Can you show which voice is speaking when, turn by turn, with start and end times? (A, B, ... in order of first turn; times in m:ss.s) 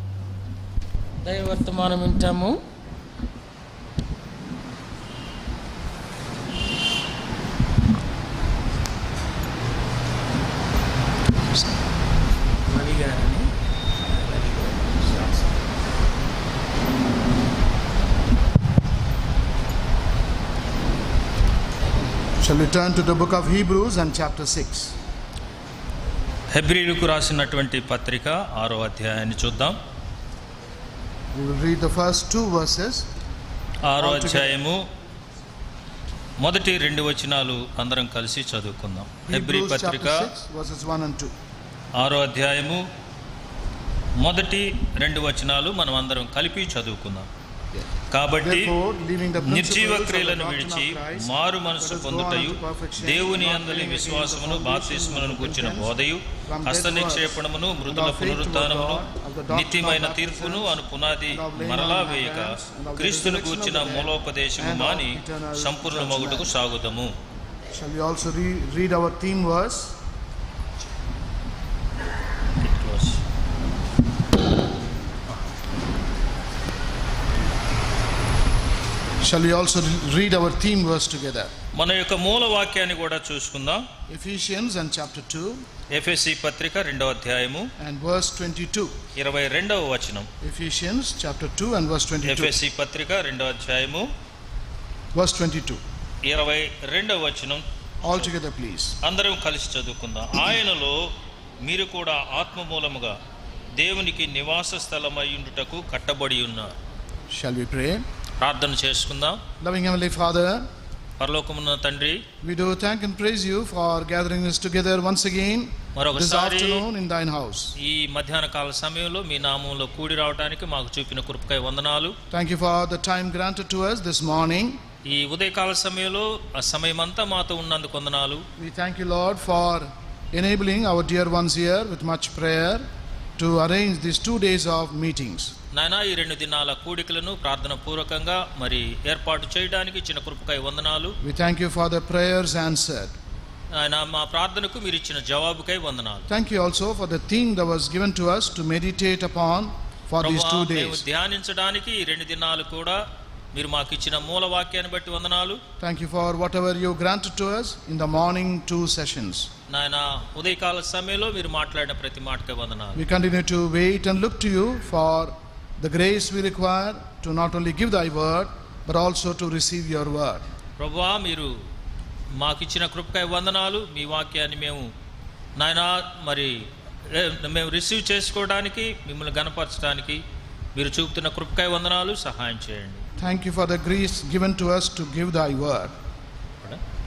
0:01.2-0:02.6 A
0:12.7-0:13.5 A
0:14.2-0:15.4 A
0:22.4-0:25.0 B
0:26.5-0:29.8 C
0:31.3-0:33.1 B
0:33.8-0:34.8 C
0:34.0-0:34.6 B
0:36.4-0:40.3 C
0:39.3-0:41.3 B
0:42.0-0:42.8 C
0:44.2-0:47.3 C
0:48.1-0:48.7 C
0:48.4-0:56.0 B
0:49.4-1:07.1 C
0:56.5-1:00.8 B
1:01.3-1:06.5 B
1:07.7-1:10.0 B
1:12.6-1:13.2 C
1:19.2-1:21.5 B
1:21.8-1:23.8 C
1:24.1-1:25.6 B
1:25.9-1:27.7 C
1:27.8-1:28.9 B
1:29.2-1:30.3 C
1:30.4-1:32.6 B
1:32.2-1:34.1 C
1:35.1-1:35.8 B
1:36.2-1:38.3 C
1:38.0-1:39.0 B
1:39.0-1:41.0 C
1:41.6-1:43.2 C
1:43.8-1:46.8 C
1:47.3-1:48.0 B
1:48.4-1:49.4 C
1:49.6-1:50.6 B
1:51.2-1:52.2 C
1:52.4-1:57.7 B
1:56.0-1:56.8 C
1:57.8-2:02.2 C
2:02.3-2:04.8 B
2:05.0-2:08.4 C
2:08.6-2:12.8 B
2:13.4-2:15.5 B
2:15.7-2:21.2 C
2:21.2-2:23.1 B
2:23.7-2:26.3 C
2:26.3-2:31.0 B
2:30.2-2:33.0 C
2:33.5-2:35.6 C
2:35.8-2:39.5 B
2:39.7-2:43.0 C
2:43.0-2:50.4 B
2:50.8-2:51.5 C
2:52.4-2:54.9 C
2:55.6-3:00.2 C
3:00.8-3:03.0 C
3:03.2-3:05.9 B